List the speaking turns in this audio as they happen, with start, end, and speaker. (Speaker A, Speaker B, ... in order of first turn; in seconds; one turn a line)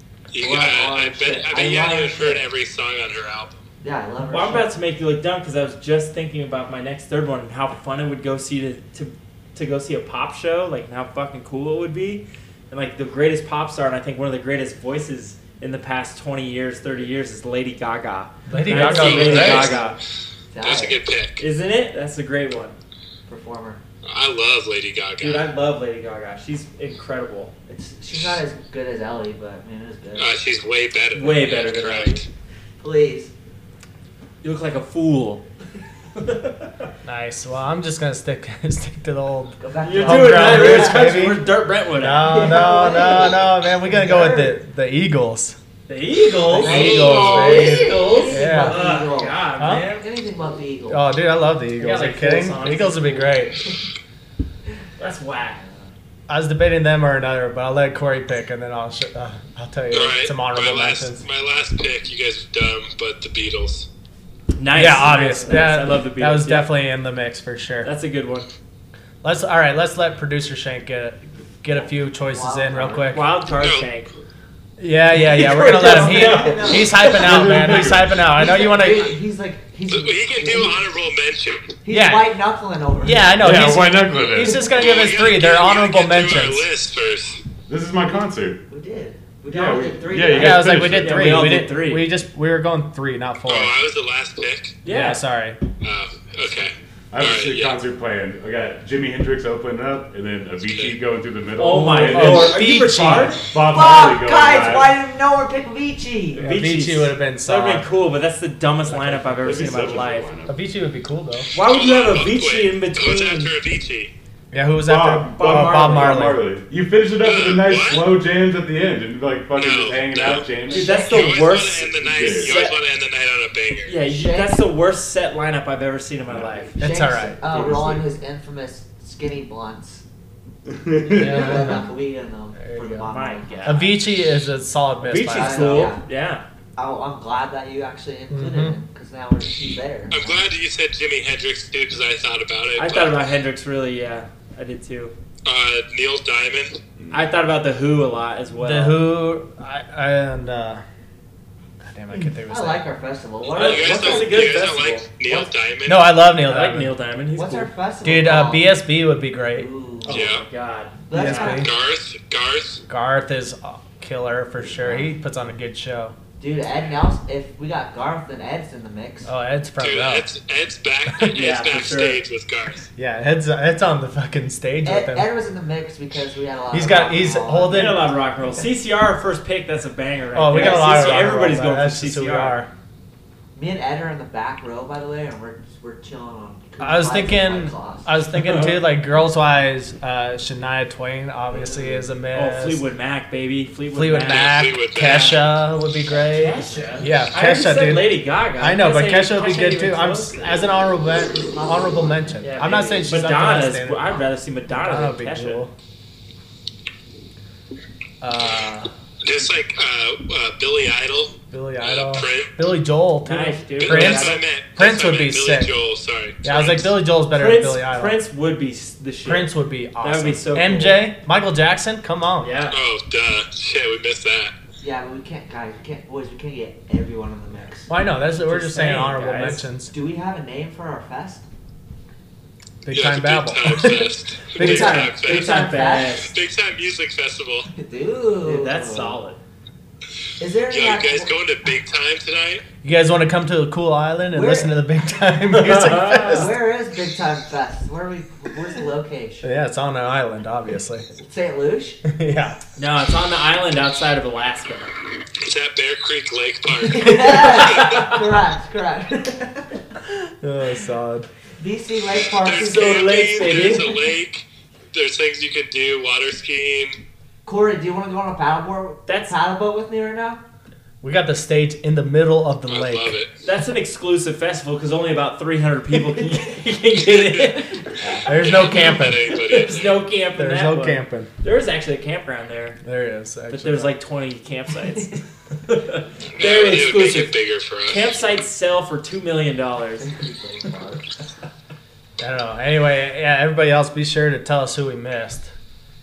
Speaker A: 0.3-3.7
Speaker B: 0.4-2.4
Speaker B: 3.8-4.7
Speaker C: 4.2-20.0
Speaker D: 18.5-19.8
Speaker B: 18.8-19.8
Speaker A: 18.9-19.8
Speaker B: 20.5-21.0
Speaker A: 20.6-21.4
Speaker C: 21.4-22.8
Speaker B: 23.3-23.8
Speaker A: 24.0-25.5
Speaker C: 25.2-27.5
Speaker B: 27.7-30.3
Speaker A: 30.2-32.2
Speaker C: 31.1-32.3
Speaker B: 32.8-33.3
Speaker C: 34.4-35.4
Speaker C: 36.1-36.9
Speaker D: 37.0-45.6
Speaker B: 39.6-41.3
Speaker C: 39.8-42.8
Speaker B: 42.2-44.6
Speaker C: 45.9-50.1
Speaker D: 46.5-48.8
Speaker B: 46.5-51.0
Speaker D: 49.6-49.9
Speaker D: 50.9-53.6
Speaker C: 51.8-53.3
Speaker C: 55.0-55.7
Speaker D: 56.3-61.2
Speaker A: 59.9-63.9
Speaker C: 64.6-66.7
Speaker D: 64.7-67.9
Speaker C: 67.8-68.5
Speaker D: 69.2-73.3
Speaker B: 71.7-73.2
Speaker C: 73.1-74.1
Speaker A: 73.6-73.9
Speaker D: 74.8-79.2
Speaker C: 75.2-77.5
Speaker B: 75.5-77.6
Speaker E: 77.1-78.3
Speaker B: 78.3-80.8
Speaker A: 79.9-81.8
Speaker B: 81.8-83.3
Speaker D: 81.9-82.3
Speaker D: 83.0-86.7
Speaker E: 83.4-84.7
Speaker B: 84.4-84.7
Speaker A: 84.7-87.4
Speaker E: 87.7-88.6
Speaker B: 88.7-90.8
Speaker E: 89.5-91.5
Speaker D: 90.3-93.8
Speaker C: 90.6-92.1
Speaker A: 93.5-94.8
Speaker C: 94.8-95.2
Speaker D: 94.9-95.6
Speaker A: 95.8-97.8
Speaker E: 97.1-102.8
Speaker A: 100.6-101.0
Speaker C: 101.6-103.4
Speaker D: 102.0-103.4
Speaker E: 103.3-104.9
Speaker B: 103.6-106.5
Speaker C: 106.4-110.3
Speaker D: 106.4-107.9
Speaker D: 108.9-109.7
Speaker E: 109.4-110.6
Speaker D: 110.5-111.5
Speaker C: 111.5-113.5
Speaker A: 111.6-114.1
Speaker D: 114.5-116.5
Speaker E: 114.8-121.1
Speaker C: 115.3-116.3
Speaker A: 117.2-118.1
Speaker A: 119.5-124.0
Speaker C: 120.7-122.8
Speaker B: 120.7-121.1
Speaker E: 121.8-122.7
Speaker C: 123.9-126.8
Speaker B: 124.0-124.6
Speaker E: 126.3-126.7
Speaker D: 126.8-127.4
Speaker B: 126.8-130.1
Speaker E: 127.5-128.0
Speaker E: 130.8-131.8
Speaker B: 131.0-133.9
Speaker D: 131.1-131.9
Speaker D: 132.6-133.1
Speaker C: 133.1-133.9
Speaker D: 133.7-135.9
Speaker C: 135.0-136.4
Speaker B: 135.3-136.1
Speaker B: 136.8-140.5
Speaker D: 138.3-138.8
Speaker A: 140.1-143.2
Speaker C: 142.8-145.1
Speaker A: 145.4-146.8
Speaker C: 147.1-149.0
Speaker D: 148.6-150.8
Speaker D: 151.8-152.9
Speaker B: 152.5-154.5
Speaker A: 153.5-156.1
Speaker C: 153.5-155.1
Speaker D: 155.9-157.0
Speaker C: 156.4-157.7
Speaker B: 157.3-158.7
Speaker D: 158.0-159.7
Speaker B: 159.5-160.3
Speaker C: 160.1-161.5
Speaker A: 160.1-160.4
Speaker B: 161.1-161.7
Speaker D: 161.1-161.7
Speaker A: 161.3-162.8
Speaker D: 162.9-166.2
Speaker B: 164.7-165.1
Speaker B: 166.4-169.3
Speaker D: 169.3-170.3
Speaker A: 169.8-172.9
Speaker C: 171.3-172.2
Speaker D: 173.0-175.3
Speaker B: 174.8-178.0
Speaker D: 176.7-178.1
Speaker C: 177.7-182.6
Speaker D: 180.3-182.7
Speaker B: 180.5-181.5
Speaker B: 183.6-188.1
Speaker D: 186.8-192.8
Speaker C: 188.4-188.8
Speaker B: 191.5-192.0
Speaker C: 191.9-195.5
Speaker D: 193.9-204.2
Speaker A: 194.3-195.6
Speaker C: 196.1-200.4
Speaker B: 201.3-202.4
Speaker C: 202.4-205.7
Speaker D: 204.7-205.7
Speaker D: 208.2-208.9
Speaker A: 209.2-212.6
Speaker D: 211.5-215.7
Speaker C: 213.2-214.4
Speaker A: 213.8-217.0
Speaker D: 216.4-218.2
Speaker C: 217.3-221.1
Speaker D: 219.2-222.5
Speaker C: 222.4-222.8
Speaker A: 222.7-224.6
Speaker B: 224.8-227.9
Speaker D: 227.9-229.9
Speaker C: 228.4-229.6
Speaker B: 229.9-231.5
Speaker D: 232.8-234.9
Speaker A: 232.9-235.7
Speaker B: 234.6-236.2
Speaker C: 234.6-236.3
Speaker A: 236.2-237.7
Speaker B: 237.7-239.2
Speaker C: 238.4-239.4
Speaker B: 240.4-241.4
Speaker A: 240.7-242.6
Speaker D: 242.8-246.5
Speaker B: 244.3-244.7
Speaker C: 245.5-246.5
Speaker B: 246.1-249.5
Speaker D: 249.4-251.1
Speaker B: 251.2-252.0
Speaker D: 252.1-252.6
Speaker C: 252.8-254.9
Speaker A: 255.4-258.1
Speaker B: 256.8-259.9
Speaker D: 260.4-261.3
Speaker B: 261.6-263.8
Speaker A: 262.3-267.0
Speaker C: 262.5-264.0
Speaker B: 267.4-270.4
Speaker C: 269.1-269.4
Speaker D: 271.0-273.2
Speaker A: 272.7-273.4
Speaker C: 273.4-278.3
Speaker D: 278.2-279.4
Speaker A: 278.2-280.0
Speaker C: 279.4-282.8
Speaker D: 280.3-281.3
Speaker D: 282.8-284.0
Speaker C: 283.5-287.4
Speaker A: 286.3-288.2
Speaker C: 287.9-290.1
Speaker B: 290.0-291.0
Speaker D: 292.2-295.5